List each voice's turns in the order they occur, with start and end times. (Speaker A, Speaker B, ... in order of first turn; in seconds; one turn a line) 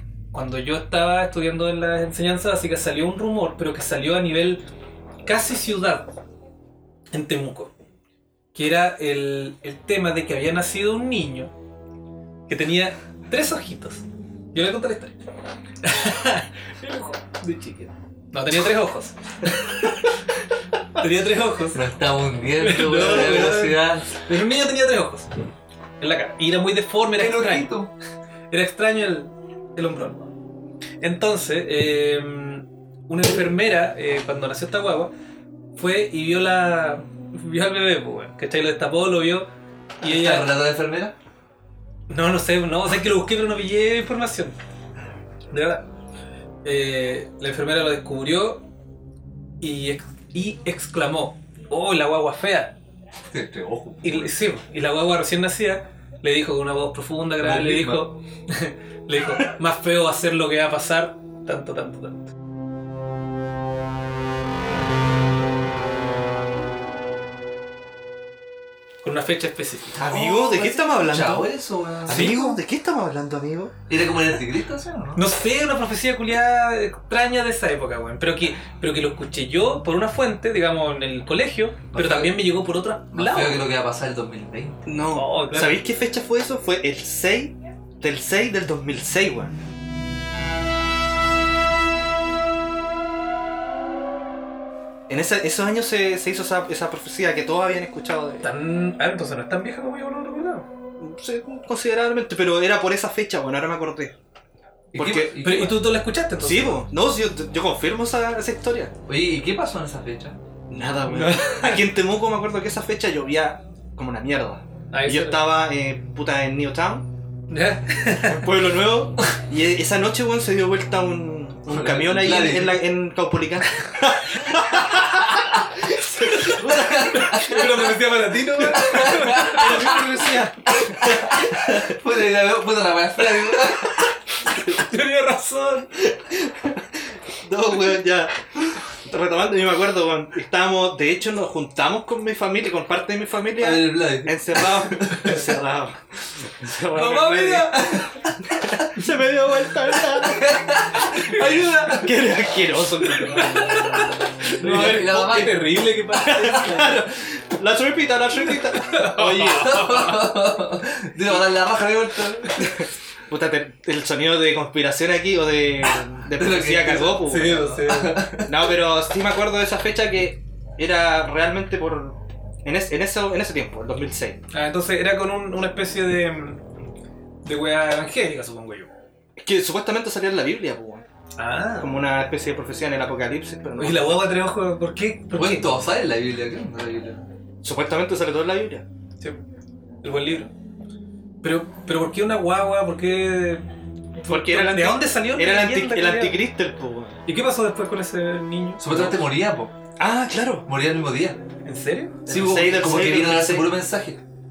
Speaker A: 0.3-4.6
Speaker A: 5.2-6.1
Speaker A: 7.1-7.7
Speaker A: 8.5-11.5
Speaker A: 12.5-15.2
Speaker A: 15.8-20.1
Speaker A: 20.9-21.8
Speaker B: 21.7-24.1
Speaker A: 22.6-25.3
Speaker A: 26.0-27.7
Speaker B: 27.2-27.9
Speaker A: 28.5-30.2
Speaker A: 31.0-35.1
Speaker A: 35.8-39.5
Speaker A: 40.0-40.6
Speaker B: 40.0-41.1
Speaker A: 42.1-44.5
Speaker A: 45.5-45.9
Speaker A: 46.6-48.6
Speaker A: 49.6-52.8
Speaker B: 53.3-54.4
Speaker A: 54.0-62.3
Speaker B: 57.4-58.1
Speaker A: 69.0-70.0
Speaker C: 70.0-71.5
Speaker B: 70.0-72.3
Speaker C: 72.1-73.8
Speaker A: 72.1-72.6
Speaker B: 73.9-75.2
Speaker A: 75.2-83.7
Speaker B: 81.9-82.4
Speaker B: 83.1-84.9
Speaker C: 84.9-89.6
Speaker A: 85.1-85.8
Speaker C: 95.1-98.5
Speaker A: 98.4-100.7
Speaker C: 101.0-104.2
Speaker B: 104.9-105.8
Speaker C: 105.0-105.4
Speaker A: 105.3-106.8
Speaker C: 106.4-108.9
Speaker B: 109.1-110.4
Speaker C: 110.7-117.1
Speaker A: 111.1-111.8
Speaker A: 114.9-115.5
Speaker A: 117.5-118.4
Speaker C: 118.2-127.3
Speaker B: 121.7-122.8
Speaker B: 126.5-127.9
Speaker A: 126.5-130.6
Speaker B: 128.6-130.0
Speaker C: 129.8-130.4
Speaker B: 130.8-134.1
Speaker C: 131.0-131.8
Speaker A: 134.7-135.9
Speaker C: 136.3-136.8
Speaker C: 137.4-150.6
Speaker B: 143.6-145.4
Speaker B: 146.9-148.8
Speaker A: 147.0-147.6
Speaker B: 150.1-152.1
Speaker A: 151.1-152.0
Speaker C: 151.4-155.5
Speaker A: 153.4-157.0
Speaker B: 154.6-155.6
Speaker C: 156.1-160.1
Speaker A: 158.7-160.2
Speaker B: 159.4-162.8
Speaker C: 162.6-167.9
Speaker B: 166.3-168.7
Speaker A: 167.2-168.4
Speaker C: 168.4-174.4
Speaker A: 174.5-176.7
Speaker A: 177.4-178.9
Speaker C: 179.4-181.1
Speaker A: 181.4-182.0
Speaker C: 181.8-184.3
Speaker A: 183.8-185.7
Speaker B: 185.3-187.3
Speaker C: 187.6-188.8
Speaker A: 190.0-190.5
Speaker A: 191.4-193.7
Speaker A: 194.2-196.4
Speaker C: 194.3-197.2
Speaker A: 197.3-199.2
Speaker B: 198.8-199.7
Speaker C: 200.0-200.7
Speaker B: 200.7-201.4
Speaker A: 201.6-202.2
Speaker C: 202.3-203.7
Speaker B: 202.3-204.2